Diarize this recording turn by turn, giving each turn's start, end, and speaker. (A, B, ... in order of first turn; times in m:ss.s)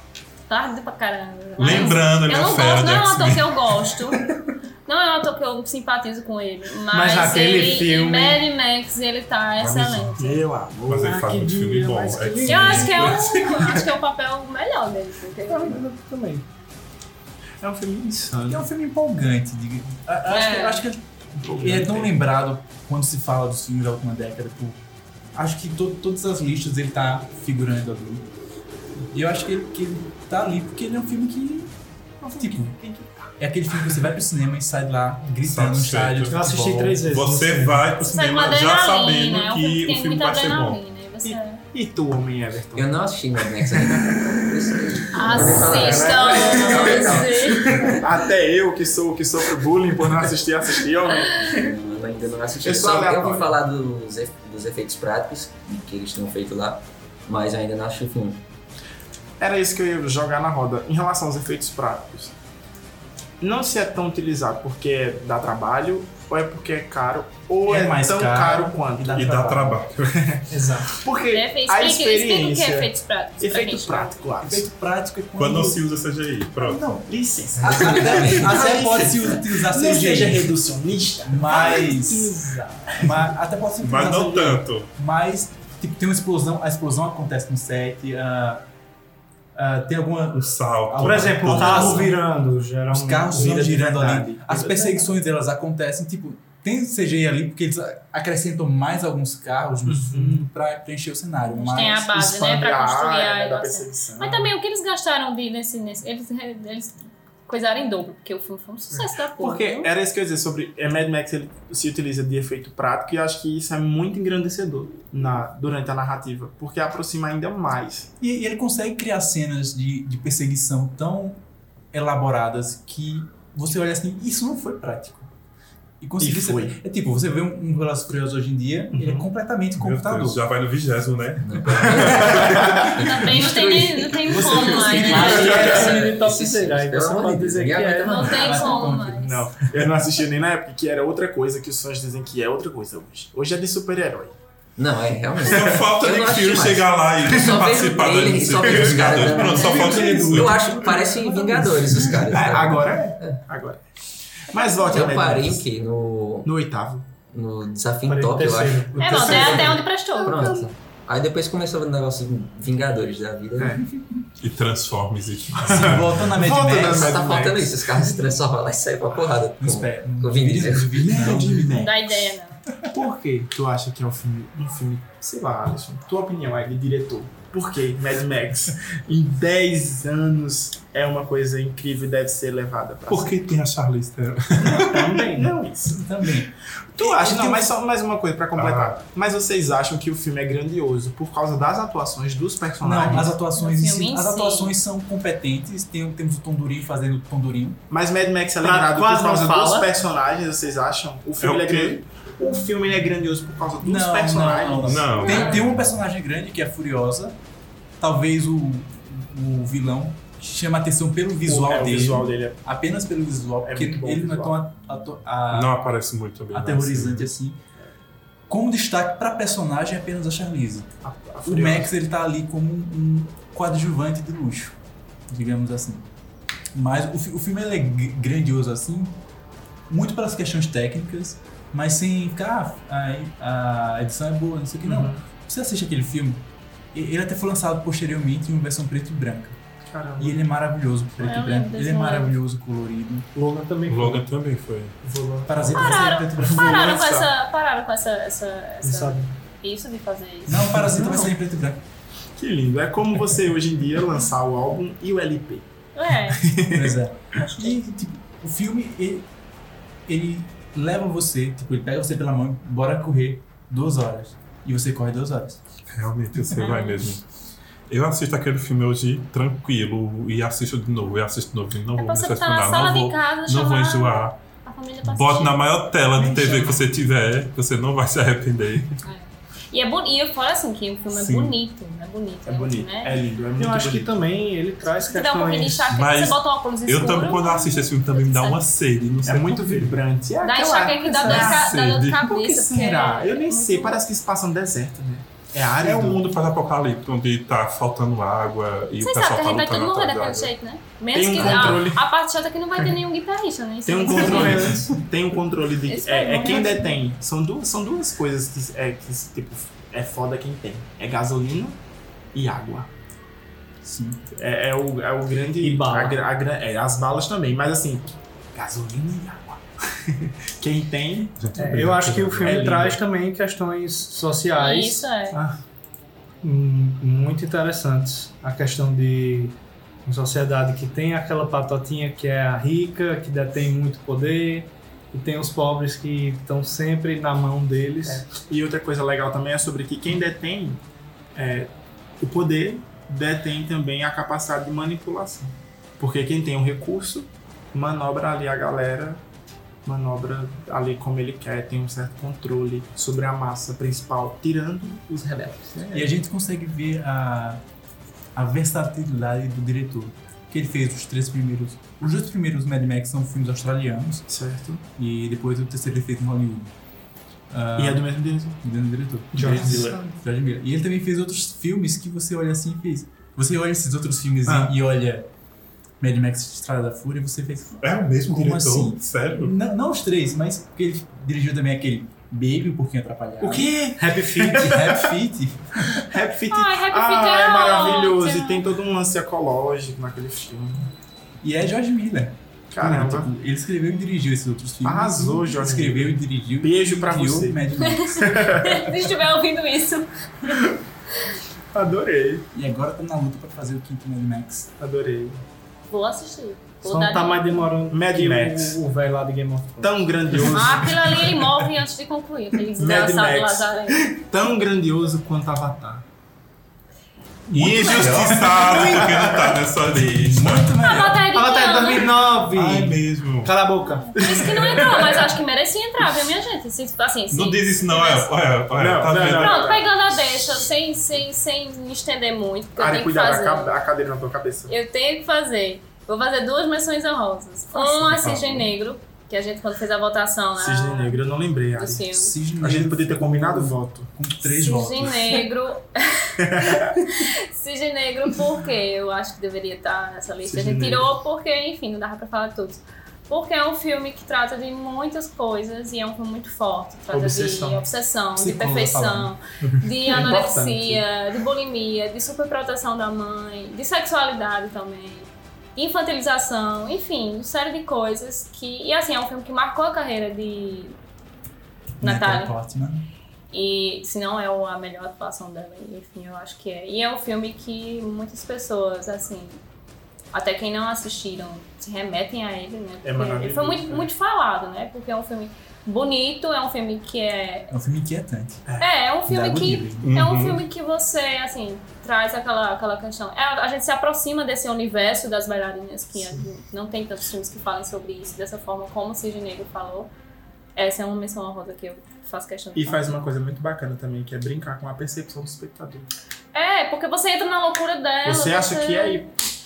0:00.5-0:04.2 A
0:01.6-0:04.0 B
0:04.9-0:10.4 A
0:06.9-0:08.4 C
0:09.6-0:10.2 B
0:10.2-0:11.2 D
0:10.9-0:13.8 B
0:11.1-0:13.2 C
0:12.4-0:15.8 A
0:15.5-0:16.4 C
0:17.6-0:18.7 D
0:18.5-0:24.8 E
0:20.3-0:20.8 A
0:21.4-0:22.2 D
0:25.3-0:28.3 E
0:29.1-0:31.7 E
0:32.2-0:34.0 D
0:32.4-0:32.7 E
0:33.4-0:37.1 E
0:35.4-0:36.3 B
0:36.3-0:37.9 C
0:37.1-0:40.8 B
0:38.0-0:41.6 A
0:41.2-0:51.7 D
0:42.7-0:48.2 F
0:45.1-0:47.7 A
0:51.4-0:58.4 F
0:52.6-0:53.6 D
0:59.4-1:02.4 D
1:03.4-1:09.2 D
1:07.6-1:09.9 E
1:09.1-1:10.3 B
1:10.2-1:14.7 D
1:10.5-1:11.0 C
1:11.3-1:14.2 A
1:14.4-1:15.9 E
1:15.4-1:16.8 B
1:16.6-1:22.4 E
1:17.1-1:22.3 D
1:17.6-1:19.2 F
1:22.0-1:22.8 C
1:23.0-1:28.6 E
1:23.8-1:24.9 B
1:29.6-1:32.2 E
1:30.4-1:32.2 B
1:31.0-1:33.4 C
1:32.9-1:42.2 E
1:33.3-1:35.1 D
1:39.9-1:40.3 D
1:41.5-1:49.9 A
1:42.1-1:44.5 D
1:48.9-1:58.1 D
1:58.2-2:05.3 E
2:06.0-2:10.4 E
2:06.2-2:06.8 D
2:08.9-2:09.3 D
2:09.8-2:12.5 B
2:11.4-2:18.7 F
2:11.8-2:13.0 D
2:13.0-2:15.6 A
2:14.4-2:15.9 D
2:15.0-2:18.3 C
2:18.0-2:19.4 A
2:18.3-2:19.4 E
2:19.1-2:24.4 D
2:24.8-2:33.4 F
2:25.4-2:25.9 D
2:25.4-2:30.7 B
2:28.6-2:29.7 D
2:29.1-2:32.0 E
2:32.3-2:33.8 D
2:34.4-2:35.6 D
2:34.8-2:36.5 F
2:36.4-2:37.1 D
2:37.3-2:43.8 F
2:38.1-2:39.6 C
2:39.0-2:40.3 A
2:39.1-2:39.6 D
2:40.3-2:40.6 D
2:44.4-2:46.3 B
2:45.6-2:48.3 D
2:45.7-2:47.2 E
2:46.8-2:51.0 F
2:49.6-2:51.9 E
2:50.9-2:52.3 D
2:51.8-2:52.6 A
2:52.9-3:03.4 D
3:03.1-3:05.2 B
3:04.6-3:05.3 C
3:04.7-3:06.1 D
3:05.9-3:07.7 E
3:06.9-3:13.4 D
3:08.6-3:09.0 B
3:12.8-3:17.8 E
3:13.6-3:14.8 A
3:17.9-3:25.6 D
3:18.6-3:19.9 C
3:21.4-3:22.0 B
3:23.8-3:27.4 E
3:24.8-3:25.9 B
3:25.2-3:25.6 A
3:28.0-3:35.7 E
3:31.4-3:32.6 D
3:33.6-3:34.6 D
3:35.5-3:37.3 B
3:36.5-3:37.6 E
3:38.5-3:40.9 E
3:41.0-3:41.9 D
3:41.4-3:44.8 E
3:45.3-3:46.1 E
3:46.7-3:49.2 E
3:49.9-3:59.6 E
3:54.8-3:55.2 D
3:59.9-4:00.4 D
4:00.2-4:03.3 E
4:01.2-4:02.3 A
4:03.4-4:04.2 C
4:03.8-4:04.9 B
4:05.0-4:05.5 C
4:05.1-4:07.3 D
4:05.5-4:07.0 E
4:05.7-4:10.6 A
4:08.8-4:09.3 C
4:10.5-4:11.8 E
4:10.8-4:11.2 D
4:12.4-4:15.7 D
4:15.9-4:16.4 A
4:16.3-4:17.0 D
4:16.7-4:19.3 E
4:20.1-4:25.6 E
4:25.9-4:27.2 B
4:26.6-4:27.1 A
4:27.9-4:34.4 B
4:32.0-4:35.6 A
4:35.0-4:39.0 B
4:36.2-4:36.7 C
4:36.3-4:36.6 D
4:39.0-4:43.2 A
4:41.1-4:41.6 B
4:42.4-4:44.2 D
4:43.6-4:45.9 C
4:44.9-4:48.6 A
4:45.9-4:50.0 B
4:49.3-4:56.2 D
4:50.4-4:54.0 A
4:51.2-4:51.5 C
4:51.3-4:52.2 B
4:55.8-5:00.5 B
4:59.0-5:04.9 A
5:01.1-5:02.1 D
5:01.4-5:01.8 B
5:03.9-5:11.8 D
5:05.8-5:07.0 A
5:12.3-5:12.9 D
5:13.8-5:14.2 E
5:14.4-5:21.4 D
5:15.6-5:16.2 C
5:21.4-5:22.7 B
5:21.6-5:25.4 C
5:22.4-5:23.0 D
5:24.6-5:25.4 A
5:26.4-5:38.3 C
5:38.1-5:40.8 D
5:41.3-5:49.2 D
5:49.8-5:56.0 D
5:55.7-5:56.0 C
5:55.9-5:57.6 E
5:58.4-6:04.3 E
6:04.3-6:04.8 D
6:05.0-6:06.7 E
6:07.5-6:08.1 E
6:07.8-6:08.6 D
6:08.6-6:15.3 E
6:09.3-6:10.1 D
6:09.4-6:10.1 C
6:14.4-6:14.7 D
6:16.0-6:23.7 E
6:17.8-6:19.6 B
6:23.4-6:24.8 C
6:23.6-6:24.9 D
6:24.4-6:26.1 E
6:26.0-6:30.9 D
6:26.5-6:28.6 A
6:31.4-6:38.6 E
6:32.7-6:33.3 D
6:34.8-6:37.6 D
6:37.8-6:40.6 A
6:38.2-6:38.8 D
6:41.7-6:42.5 D
6:42.5-6:44.7 E
6:44.8-6:45.4 D
6:45.9-6:47.7 A
6:46.8-6:50.1 C
6:47.9-6:48.8 D
6:49.8-6:51.3 D
6:50.4-6:54.1 A
6:52.8-6:56.1 D
6:57.5-6:59.4 E
6:57.5-7:00.7 B
7:00.2-7:01.2 E
7:00.8-7:02.2 A
7:01.3-7:04.2 C
7:02.4-7:03.5 B
7:03.9-7:08.3 A
7:04.2-7:05.3 D
7:07.3-7:09.7 B
7:08.7-7:10.0 D
7:09.4-7:13.7 A
7:12.8-7:14.7 D
7:14.7-7:21.2 A
7:18.0-7:18.7 E
7:20.6-7:22.1 D
7:21.7-7:22.4 A
7:22.1-7:25.4 E
7:22.6-7:24.1 D
7:24.4-7:51.0 A
7:26.4-7:26.9 D
7:30.4-7:31.1 D
7:37.1-7:37.8 D
7:38.4-7:39.3 E
7:39.6-7:41.0 D
7:52.0-7:53.1 E
7:52.0-7:52.5 A
7:53.5-7:59.6 A
8:00.3-8:07.7 A
8:03.0-8:04.1 D
8:07.7-8:08.6 E
8:08.7-8:10.0 D
8:08.8-8:20.1 A
8:09.3-8:09.9 E
8:10.0-8:10.6 B
8:16.2-8:16.4 D
8:20.8-8:23.1 A
8:22.7-8:26.1 D
8:26.5-8:29.3 A
8:28.2-8:29.3 D